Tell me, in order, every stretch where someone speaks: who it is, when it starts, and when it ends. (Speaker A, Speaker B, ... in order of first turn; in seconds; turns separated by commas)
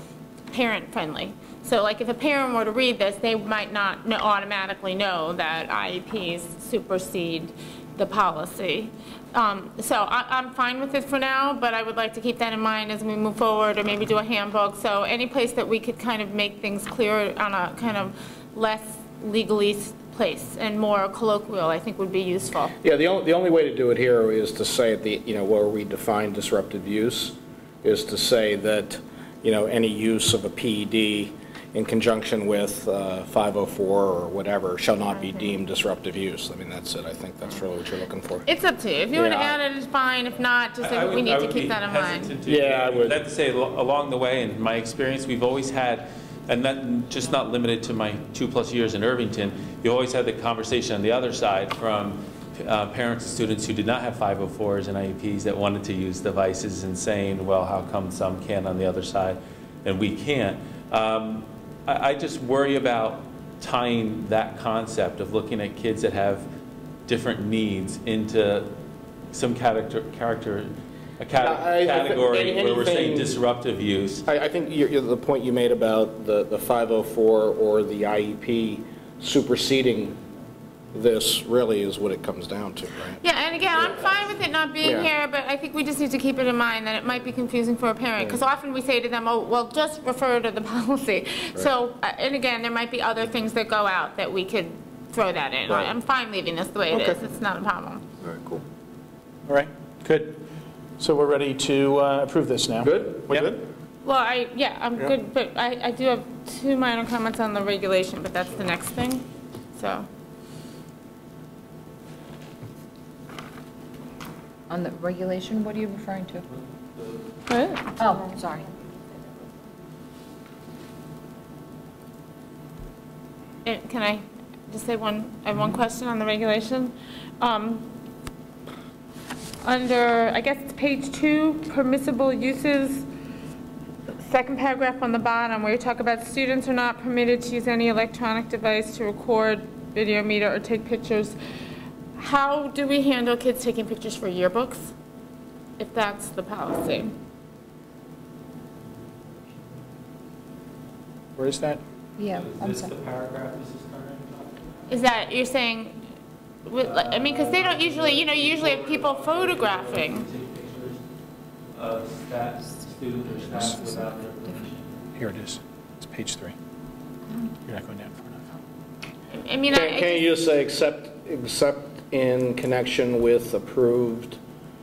Speaker A: 0.5-22.7, Speaker B: 22.8-38.4, Speaker A: 35.1-35.5, Speaker A: 38.5-42.3, Speaker B: 39.1-39.6, Speaker C: 40.8-66.5, Speaker B: 42.5-43.2, Speaker C: 67.0-68.7, Speaker C: 69.3-74.2, Speaker B: 71.3-73.3, Speaker B: 74.2-80.2, Speaker B: 80.9-84.2, Speaker A: 83.2-98.0, Speaker B: 84.8-85.1, Speaker B: 95.7-95.9, Speaker B: 96.9-97.2, Speaker B: 98.2-98.6, Speaker D: 99.5-100.4, Speaker D: 101.0-103.5, Speaker B: 102.8-103.6, Speaker A: 104.0-109.2, Speaker A: 109.8-110.1, Speaker E: 114.7-116.4, Speaker C: 116.5-117.2, Speaker A: 117.5-117.9, Speaker E: 118.0-118.7, Speaker A: 123.6-127.9, Speaker A: 129.6-133.1, Speaker A: 134.2-141.4, Speaker A: 142.2-144.9, Speaker A: 145.8-147.1, Speaker D: 151.4-151.8, Speaker E: 152.2-152.9, Speaker C: 152.2-154.9, Speaker A: 154.9-156.0, Speaker A: 156.7-160.3, Speaker C: 156.8-161.0, Speaker C: 161.7-165.0, Speaker D: 165.2-166.5, Speaker D: 167.6-168.4, Speaker A: 169.3-170.3, Speaker B: 169.7-174.4